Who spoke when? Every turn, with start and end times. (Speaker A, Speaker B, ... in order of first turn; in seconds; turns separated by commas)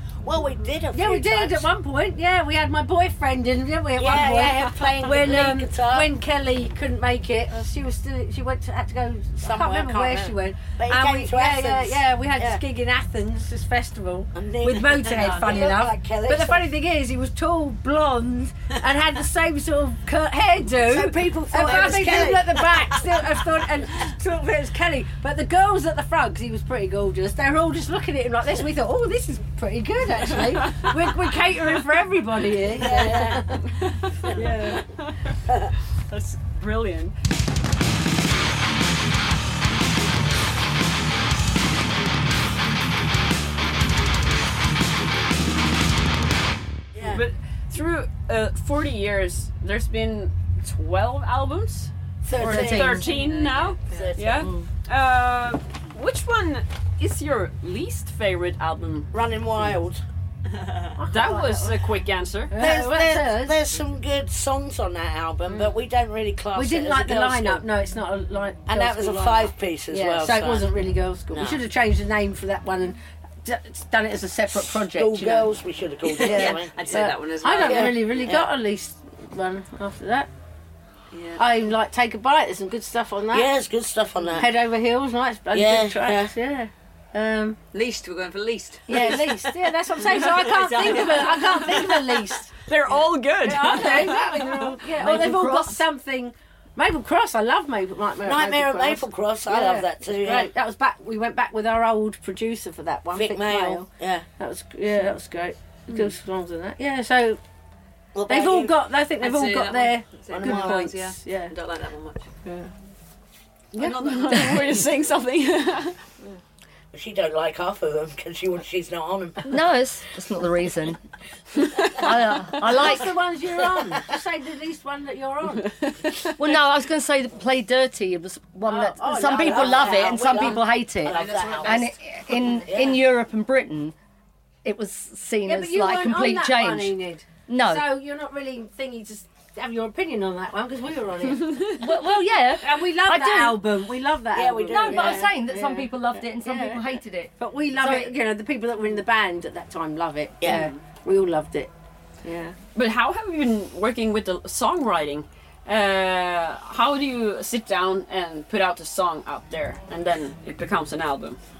Speaker A: 0.2-1.7, Speaker B: 0.9-33.6, Speaker A: 4.0-6.1, Speaker A: 9.4-12.6, Speaker A: 14.3-16.6, Speaker C: 15.1-15.6, Speaker A: 20.8-22.9, Speaker A: 32.7-33.6, Speaker D: 33.7-35.4, Speaker B: 34.3-34.8, Speaker D: 36.1-37.1, Speaker A: 46.9-47.2, Speaker D: 47.0-59.1, Speaker A: 52.2-53.1, Speaker E: 52.4-53.0, Speaker C: 53.0-54.1, Speaker A: 53.9-54.5, Speaker E: 54.4-54.7, Speaker A: 59.1-60.0, Speaker C: 60.5-60.9, Speaker B: 61.0-61.8, Speaker D: 61.1-62.5, Speaker B: 62.5-63.6, Speaker A: 62.5-67.6, Speaker B: 65.5-65.7, Speaker B: 66.5-75.5, Speaker A: 68.7-70.7, Speaker A: 71.3-71.6, Speaker A: 74.5-76.8, Speaker C: 76.2-78.2, Speaker B: 76.2-80.3, Speaker A: 77.6-78.5, Speaker C: 81.1-81.7, Speaker B: 81.4-83.5, Speaker A: 83.3-84.5, Speaker B: 84.4-87.6, Speaker A: 85.5-86.3, Speaker C: 87.7-89.2, Speaker B: 88.9-92.5, Speaker E: 88.9-89.2, Speaker A: 88.9-89.4, Speaker C: 90.0-92.2, Speaker D: 92.7-94.5, Speaker B: 93.4-107.4, Speaker E: 94.9-95.8, Speaker A: 98.2-100.5, Speaker A: 103.1-104.3, Speaker A: 108.1-108.8, Speaker B: 108.3-111.5, Speaker C: 109.2-112.2, Speaker A: 110.3-110.8, Speaker B: 112.4-112.7, Speaker D: 113.7-116.0, Speaker E: 114.3-114.7, Speaker A: 116.9-119.6, Speaker E: 119.5-121.0, Speaker D: 121.6-122.1, Speaker E: 121.8-123.2, Speaker B: 122.6-125.8, Speaker E: 126.2-133.9, Speaker B: 128.7-130.4, Speaker A: 129.2-131.9, Speaker C: 131.0-131.9, Speaker A: 132.5-133.0, Speaker E: 134.6-136.9, Speaker B: 135.5-142.0, Speaker E: 137.5-137.9, Speaker E: 141.7-143.6, Speaker B: 142.5-146.8, Speaker A: 144.3-145.3, Speaker E: 144.7-148.2, Speaker B: 147.4-151.7, Speaker A: 150.4-150.7, Speaker B: 152.2-152.6, Speaker D: 152.8-161.4